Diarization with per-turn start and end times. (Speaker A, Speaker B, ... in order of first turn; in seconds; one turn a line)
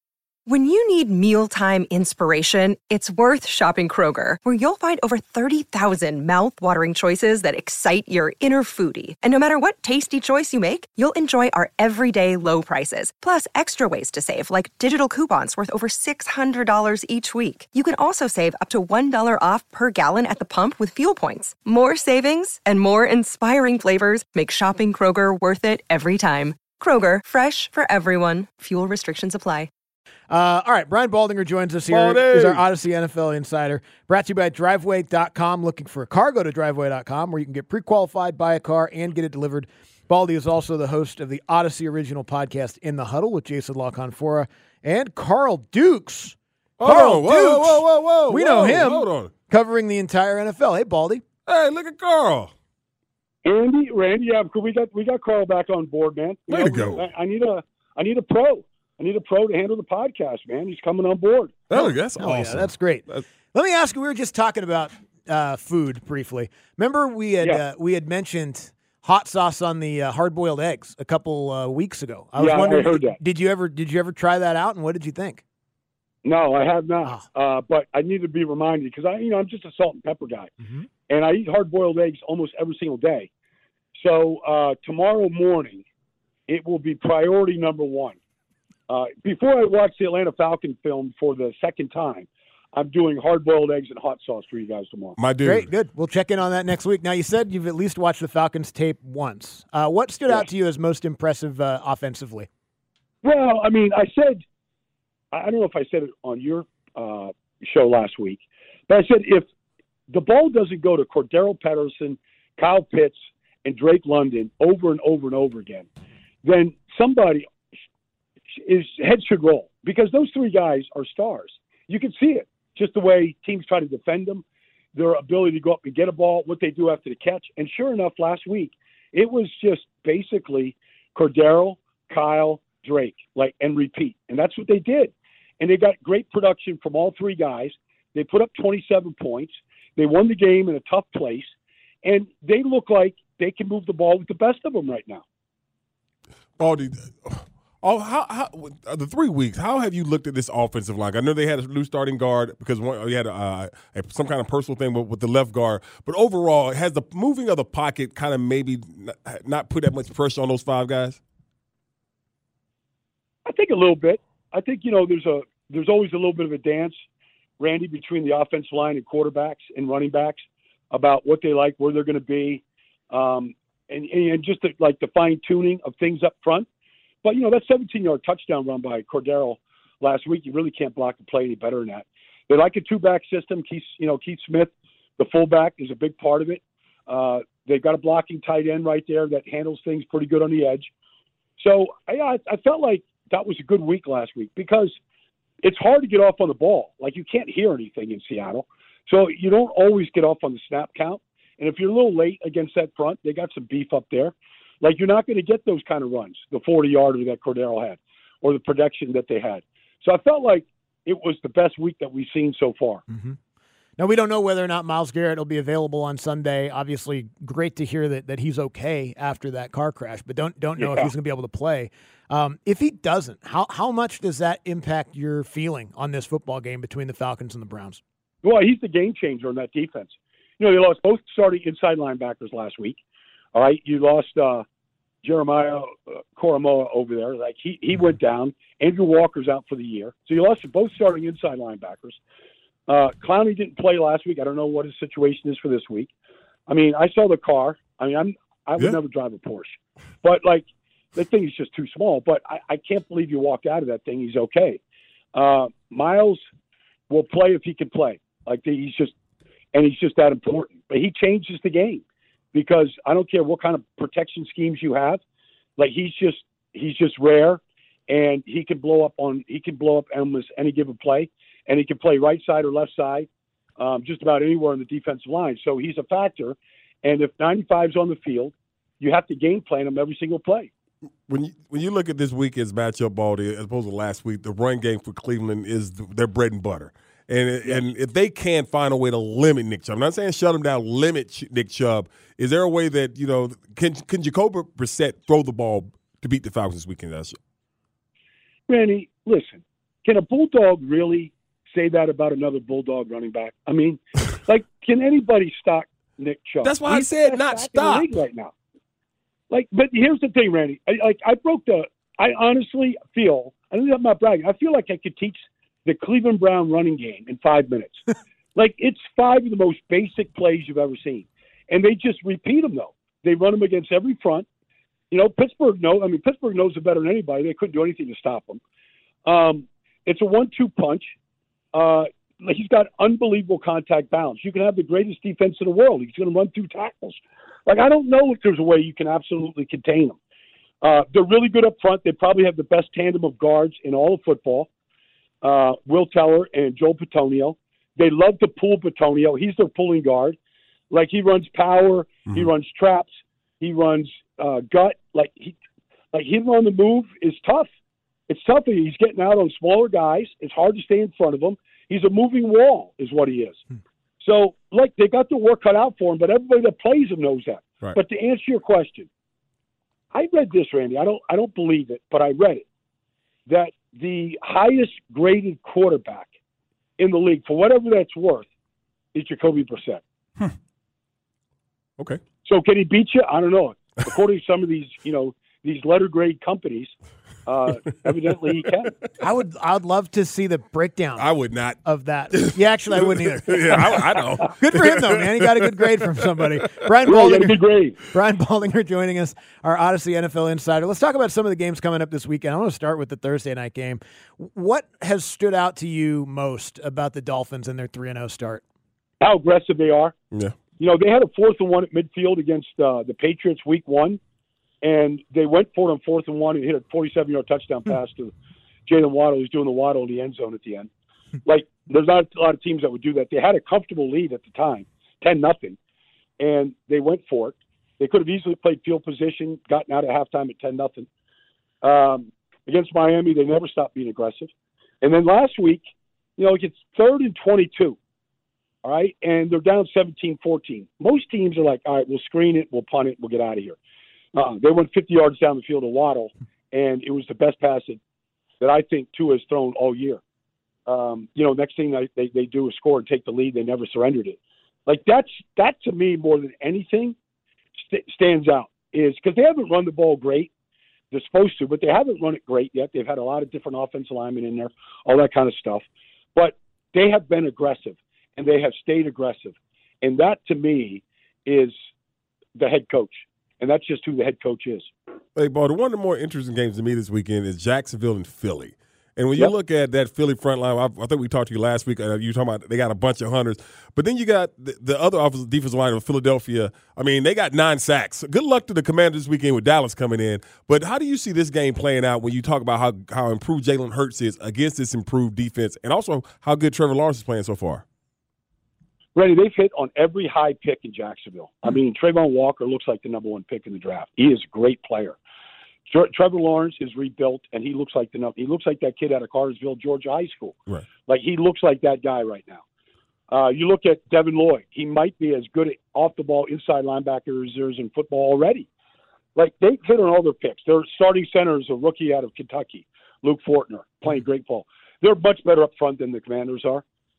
Speaker A: 0.5-29.7
Speaker B: 30.3-51.2
Speaker C: 31.9-32.6
Speaker C: 46.8-49.3
Speaker C: 51.5-52.5
Speaker D: 53.4-61.6
Speaker C: 56.5-57.1
Speaker C: 61.7-63.2
Speaker B: 61.7-75.4
Speaker D: 72.4-73.2
Speaker D: 76.2-80.5
Speaker D: 81.1-83.3
Speaker D: 84.0-85.8
Speaker D: 86.5-88.2
Speaker D: 88.9-95.2
Speaker C: 95.2-95.7
Speaker B: 95.4-102.5
Speaker D: 103.2-104.4
Speaker D: 105.3-109.5
Speaker D: 110.1-115.9
Speaker D: 116.4-117.5
Speaker D: 118.5-124.4
Speaker D: 125.0-141.5
Speaker D: 142.0-145.2
Speaker C: 146.6-161.2
Speaker D: 163.5-167.0
Speaker D: 167.6-176.7
Speaker D: 177.2-190.9
Speaker D: 191.6-195.0
Speaker D: 195.6-213.0
Speaker B: 213.1-213.4
Speaker B: 214.0-228.0
Speaker D: 220.8-221.1
Speaker D: 228.4-233.0
Speaker D: 233.5-234.6
Speaker D: 235.2-242.2
Speaker D: 242.9-246.1
Speaker D: 246.7-254.8
Speaker D: 255.3-256.4
Speaker D: 257.1-259.1
Speaker D: 259.7-262.0
Speaker D: 262.5-265.2
Speaker D: 265.8-273.3
Speaker D: 273.8-280.7
Speaker C: 281.3-297.4
Speaker D: 298.7-308.5
Speaker C: 306.6-308.0
Speaker D: 309.5-318.1
Speaker D: 318.6-324.5
Speaker D: 325.1-328.6
Speaker D: 329.3-331.1
Speaker D: 331.7-340.2
Speaker D: 340.8-344.7
Speaker D: 345.4-350.4
Speaker D: 350.9-353.1
Speaker D: 353.6-355.6
Speaker D: 356.1-357.7
Speaker D: 358.3-363.6
Speaker D: 364.2-369.1
Speaker D: 370.1-372.6
Speaker D: 373.5-376.3
Speaker D: 377.0-378.5
Speaker D: 379.1-380.0
Speaker D: 382.4-388.9
Speaker B: 389.2-391.3
Speaker C: 391.2-391.8
Speaker B: 391.8-408.6
Speaker C: 392.3-396.6
Speaker D: 397.1-398.0
Speaker D: 409.2-410.1
Speaker C: 410.3-410.6
Speaker D: 410.8-414.2
Speaker D: 414.8-418.3
Speaker D: 418.9-420.9
Speaker D: 421.4-425.8
Speaker D: 426.4-431.1
Speaker D: 431.8-434.5
Speaker D: 435.0-435.8
Speaker D: 436.4-438.0
Speaker D: 438.8-443.8
Speaker D: 444.3-448.0
Speaker D: 448.6-450.2
Speaker D: 450.9-457.2
Speaker D: 457.8-460.5
Speaker D: 461.1-471.8
Speaker D: 472.6-474.9
Speaker C: 475.4-497.8
Speaker D: 499.1-505.2
Speaker D: 505.9-512.6
Speaker D: 513.3-518.7
Speaker D: 519.4-526.8